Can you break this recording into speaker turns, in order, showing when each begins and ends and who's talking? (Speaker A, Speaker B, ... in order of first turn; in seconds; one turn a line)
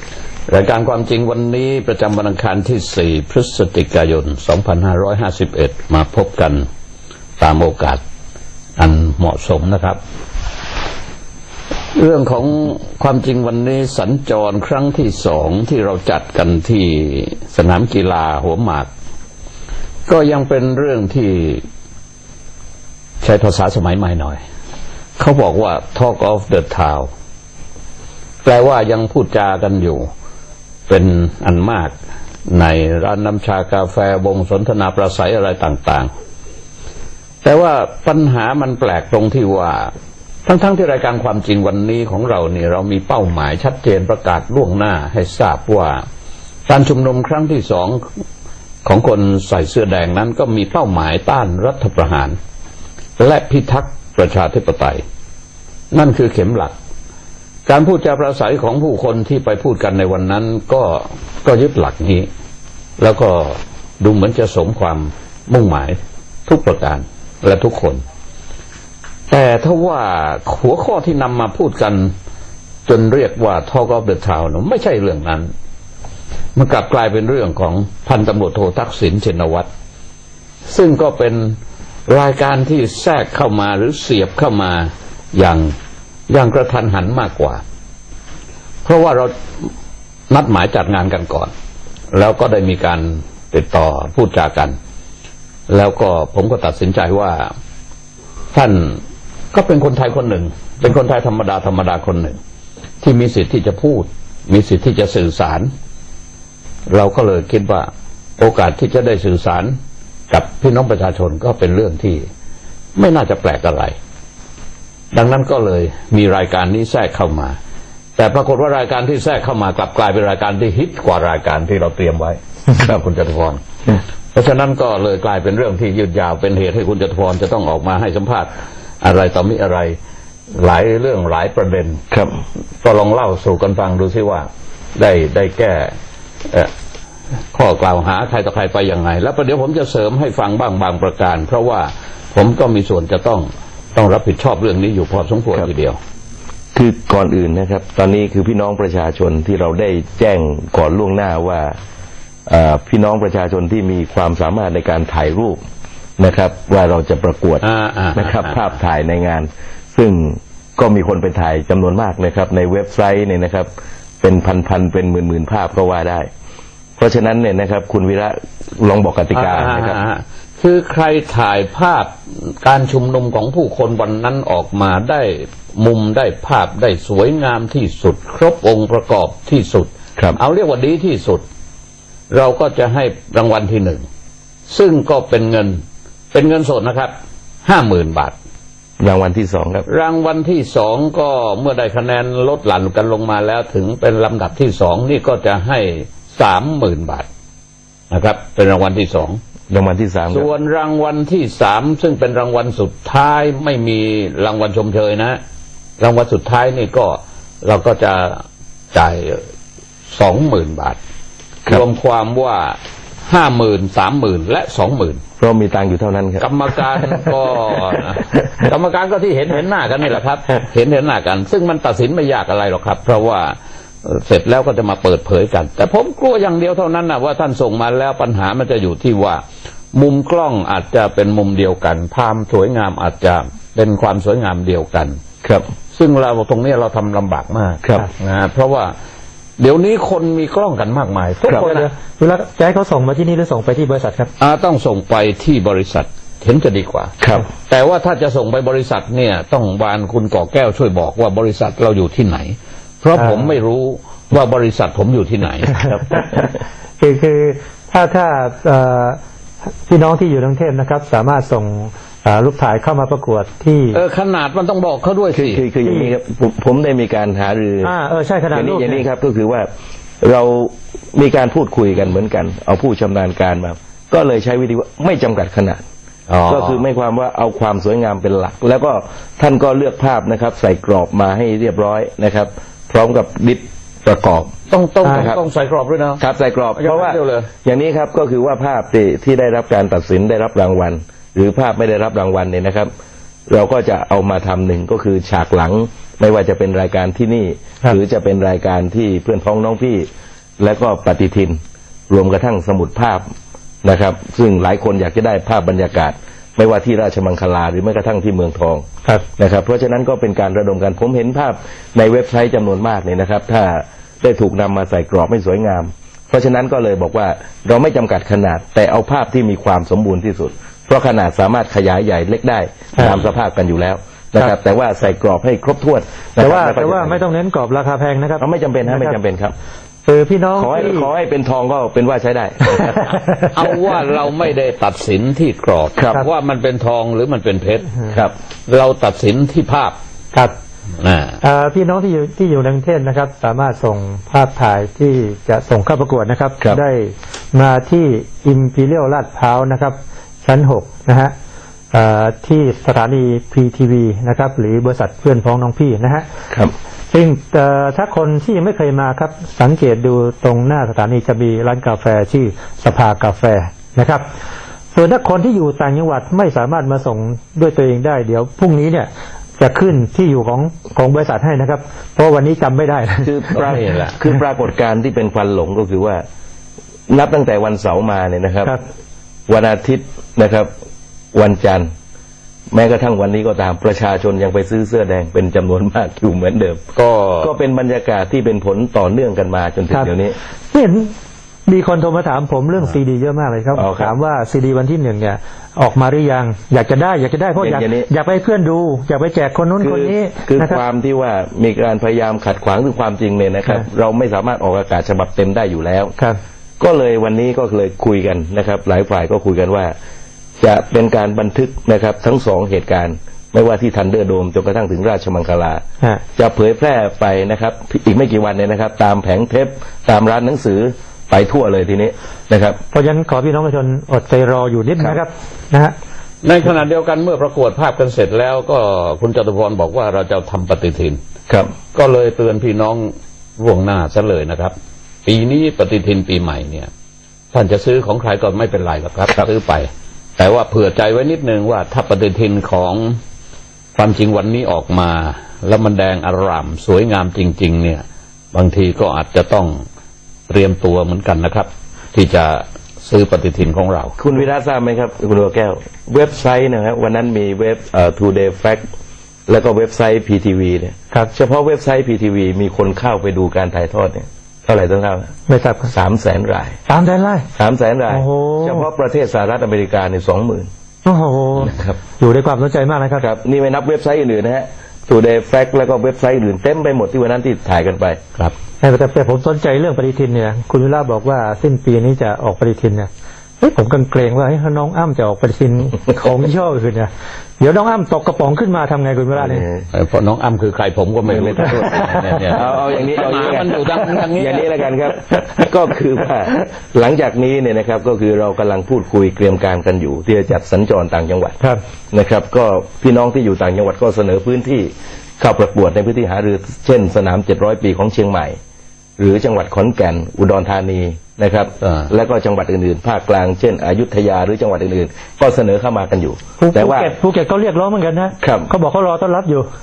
Speaker A: 0.5-6.7
Speaker A: 7.4-8.0
Speaker A: 8.8-10.0
Speaker A: 11.9-18.9
Speaker A: 20.1-21.6
Speaker A: 23.2-24.4
Speaker A: 25.2-27.1
Speaker A: 28.4-30.1
Speaker A: 30.9-31.9
Speaker A: 32.5-36.1
Speaker A: 37.4-39.9
Speaker A: 40.5-46.0
Speaker A: 46.7-48.0
Speaker A: 48.8-52.4
Speaker A: 53.2-55.0
Speaker A: 55.9-56.7
Speaker A: 57.6-62.3
Speaker A: 63.0-68.0
Speaker A: 69.3-72.1
Speaker A: 72.8-75.5
Speaker A: 76.5-79.7
Speaker A: 80.7-81.6
Speaker A: 82.1-85.7
Speaker A: 86.3-87.6
Speaker A: 88.8-89.7
Speaker A: 90.3-91.5
Speaker A: 92.1-94.8
Speaker A: 95.7-97.5
Speaker A: 98.5-99.0
Speaker A: 99.5-102.4
Speaker A: 103.0-105.7
Speaker A: 106.9-109.8
Speaker A: 110.3-112.3
Speaker A: 113.0-114.0
Speaker A: 115.1-117.6
Speaker A: 118.2-123.6
Speaker A: 124.3-130.0
Speaker A: 130.5-132.0
Speaker B: 132.1-132.4
Speaker A: 132.8-135.9
Speaker A: 137.5-146.0
Speaker B: 146.7-151.8
Speaker B: 152.5-155.6
Speaker B: 156.2-166.3
Speaker A: 157.6-158.6
Speaker B: 167.0-170.0
Speaker A: 169.3-181.4
Speaker A: 182.3-184.0
Speaker A: 184.7-187.1
Speaker A: 187.6-188.3
Speaker B: 189.0-189.8
Speaker A: 189.9-197.3
Speaker A: 198.1-199.4
Speaker B: 199.7-200.5
Speaker A: 200.3-205.4
Speaker A: 206.0-209.4
Speaker A: 210.1-211.0
Speaker A: 211.7-215.2
Speaker B: 215.4-217.3
Speaker A: 216.4-229.4
Speaker A: 229.9-235.2
Speaker A: 235.9-238.9
Speaker A: 239.6-241.9
Speaker B: 241.4-241.7
Speaker C: 241.5-244.3
Speaker A: 244.4-256.2
Speaker B: 247.2-247.4
Speaker C: 253.1-253.5
Speaker C: 256.1-256.4
Speaker C: 257.0-259.2
Speaker C: 259.9-264.0
Speaker A: 263.9-265.6
Speaker B: 265.3-267.9
Speaker C: 265.8-266.1
Speaker C: 267.8-269.0
Speaker B: 268.5-269.7
Speaker B: 270.2-275.8
Speaker A: 276.3-276.8
Speaker B: 276.5-284.5
Speaker A: 284.7-286.2
Speaker B: 285.1-285.4
Speaker B: 286.2-292.9
Speaker A: 286.8-287.5
Speaker B: 293.5-300.1
Speaker B: 300.6-303.3
Speaker B: 303.8-308.8
Speaker B: 309.4-327.2
Speaker C: 326.4-329.2
Speaker B: 328.4-329.5
Speaker C: 330.1-331.1
Speaker B: 330.6-333.0
Speaker C: 332.8-333.5
Speaker A: 333.5-338.0
Speaker B: 336.0-336.2
Speaker A: 338.7-339.9
Speaker A: 341.0-341.4
Speaker C: 341.4-351.3
Speaker C: 351.9-356.2
Speaker C: 357.1-364.2
Speaker C: 364.9-373.6
Speaker B: 373.2-376.2
Speaker A: 373.6-374.1
Speaker B: 377.1-378.7
Speaker B: 379.5-380.7
Speaker B: 381.3-381.9
Speaker B: 382.7-386.8
Speaker A: 386.9-387.5
Speaker B: 387.4-390.4
Speaker C: 390.7-391.1
Speaker C: 391.7-400.8
Speaker B: 393.7-394.1
Speaker B: 397.6-398.1
Speaker B: 399.8-406.1
Speaker B: 406.8-409.9
Speaker B: 410.6-415.8
Speaker B: 416.4-422.8
Speaker C: 422.9-425.9
Speaker A: 426.4-431.2
Speaker A: 431.9-434.7
Speaker A: 435.2-436.9
Speaker A: 437.5-443.1
Speaker A: 443.9-449.8
Speaker A: 450.5-454.1
Speaker B: 454.2-458.9
Speaker B: 459.5-465.3
Speaker C: 465.5-465.9
Speaker B: 465.9-466.8
Speaker C: 466.9-467.5
Speaker B: 467.6-470.7
Speaker C: 468.1-468.9
Speaker C: 471.0-473.2
Speaker B: 471.6-472.0
Speaker B: 473.2-478.2
Speaker C: 478.8-483.1
Speaker C: 483.6-489.6
Speaker B: 489.3-489.9
Speaker A: 489.9-494.7
Speaker B: 491.2-501.6
Speaker B: 502.1-508.6
Speaker B: 509.2-517.1
Speaker C: 516.6-519.6
Speaker B: 518.4-518.7